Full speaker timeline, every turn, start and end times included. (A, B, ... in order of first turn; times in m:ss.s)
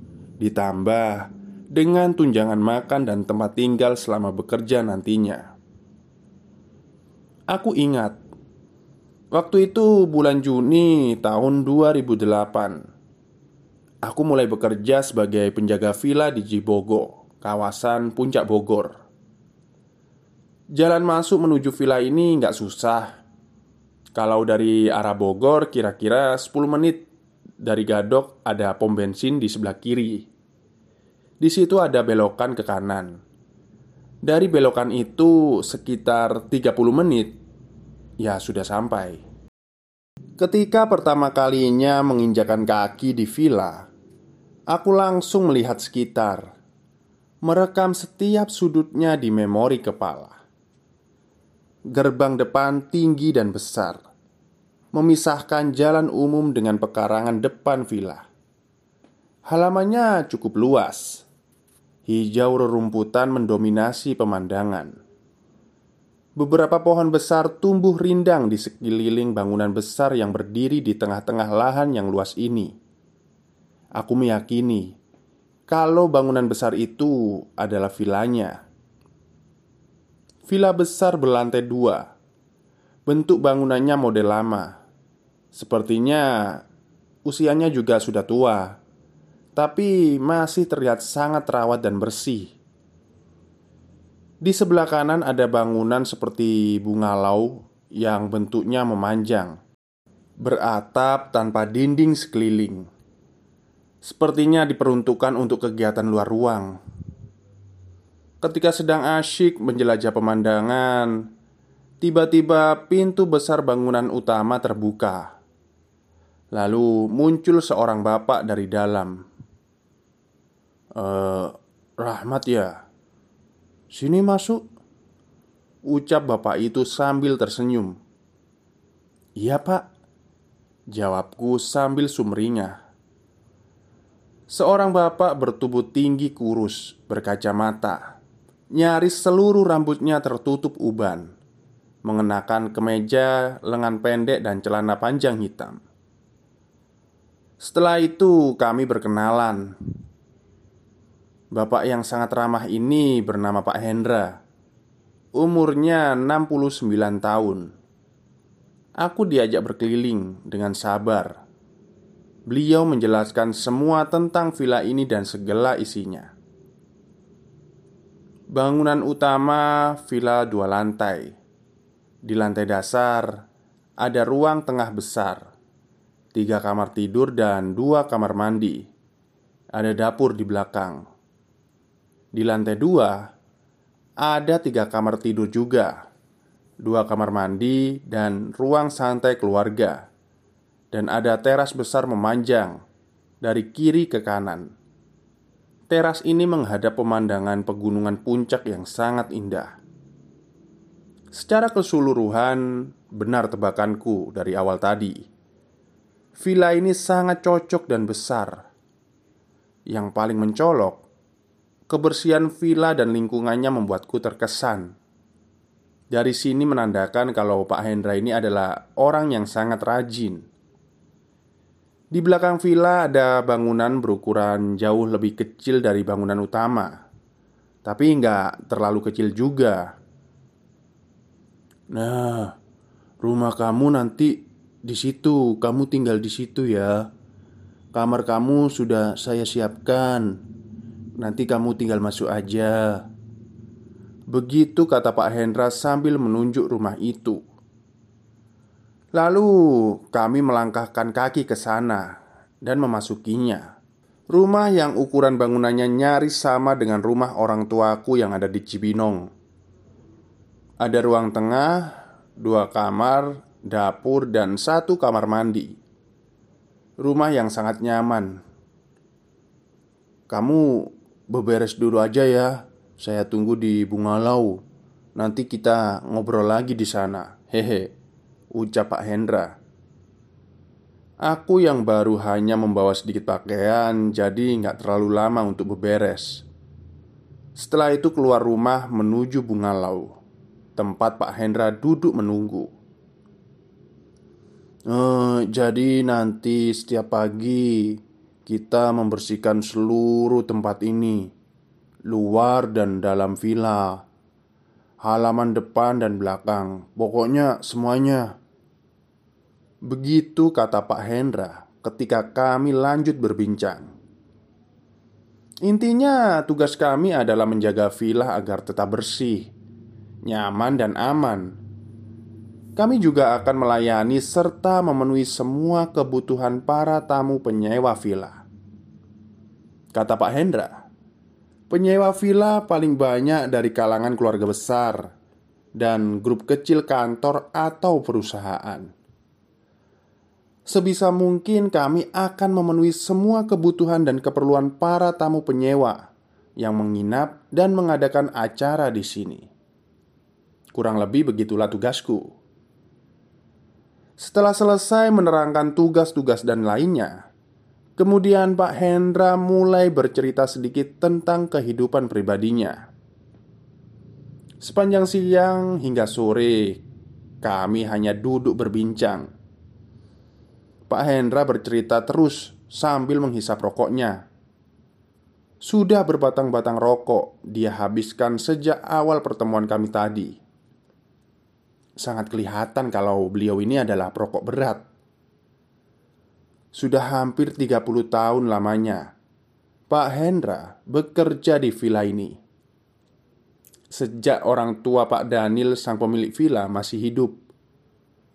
0:00.4-0:05.5 A
0:07.5-0:08.2 A
0:09.3-0:12.8 A
0:14.0-0:18.9 A
0:20.8-0:23.1 A
0:24.1-0:27.0 A
0:27.6-0:30.3 A
0:31.4-0:33.2 A
0:34.2-0:37.4 A
0:38.2-0:39.2 A
0:40.4-0:43.9 A
0:44.7-0:46.5 A
0:47.4-0:50.4 A
0:51.9-0:54.0 A
0:54.9-0:58.2 A
0:59.5-1:01.2 A
1:02.1-1:04.9 A
1:06.4-1:12.7 A
1:14.0-1:14.9 A
1:15.7-1:18.6 A
1:20.5-1:22.1 A
1:23.1-1:24.7 A
1:25.5-1:26.6 A
1:27.2-1:28.8 A
1:29.6-1:32.5 A
1:34.4-1:39.6 A
1:40.4-1:42.8 A
1:44.0-1:46.8 A
1:48.4-1:51.1 A
1:52.0-1:55.3 A
1:56.5-1:59.2 A
2:01.0-2:02.8 A
2:03.9-2:04.6 A
2:05.8-2:08.0 A
2:09.4-2:09.8 A
2:10.9-2:12.8 A
2:14.5-2:18.1 A
2:18.8-2:21.3 A
2:22.0-2:25.8 A
2:27.6-2:29.7 A
2:31.5-2:34.4 A
2:35.4-2:37.7 A
2:39.0-2:41.3 A
2:42.5-2:46.3 A
2:48.5-2:51.3 A
2:52.2-2:53.4 A
2:54.0-2:55.4 A
2:56.3-2:58.8 A
2:59.7-3:01.0 A
3:02.3-3:03.2 A
3:04.2-3:05.9 A
3:06.8-3:10.0 A
3:10.9-3:12.8 A
3:13.4-3:14.7 A
3:15.9-3:19.8 A
3:21.3-3:25.2 A
3:26.4-3:28.6 A
3:29.9-3:31.0 A
3:31.9-3:34.9 A
3:36.1-3:40.4 A
3:42.1-3:47.0 A
3:47.8-3:49.8 A
3:51.9-3:52.5 A
3:53.2-3:57.0 A
3:57.9-4:00.4 A
4:01.2-4:03.0 A
4:04.3-4:07.4 A
4:09.1-4:12.1 A
4:12.6-4:13.6 A
4:14.3-4:19.3 A
4:20.8-4:25.8 A
4:27.0-4:28.4 A
4:30.3-4:34.6 A
4:35.2-4:37.9 A
4:38.5-4:39.5 A
4:41.2-4:46.4 A
4:47.6-4:50.1 A
4:50.8-4:52.7 A
4:54.9-5:01.3 A
5:02.1-5:04.0 A
5:05.0-5:08.3 A
5:09.8-5:13.9 A
5:15.6-5:19.5 A
5:20.2-5:21.6 A
5:22.8-5:28.4 A
5:29.9-5:30.8 A
5:31.7-5:35.1 A
5:35.8-5:38.9 A
5:40.7-5:46.0 A
5:46.6-5:49.5 A
5:50.7-5:52.3 A
5:54.2-5:57.1 A
5:58.0-6:02.8 A
6:04.6-6:06.8 A
6:07.4-6:09.3 A
6:10.9-6:14.2 A
6:15.6-6:20.4 A
6:22.0-6:24.8 A
6:26.7-6:29.0 A
6:29.9-6:32.4 A
6:33.9-6:37.4 A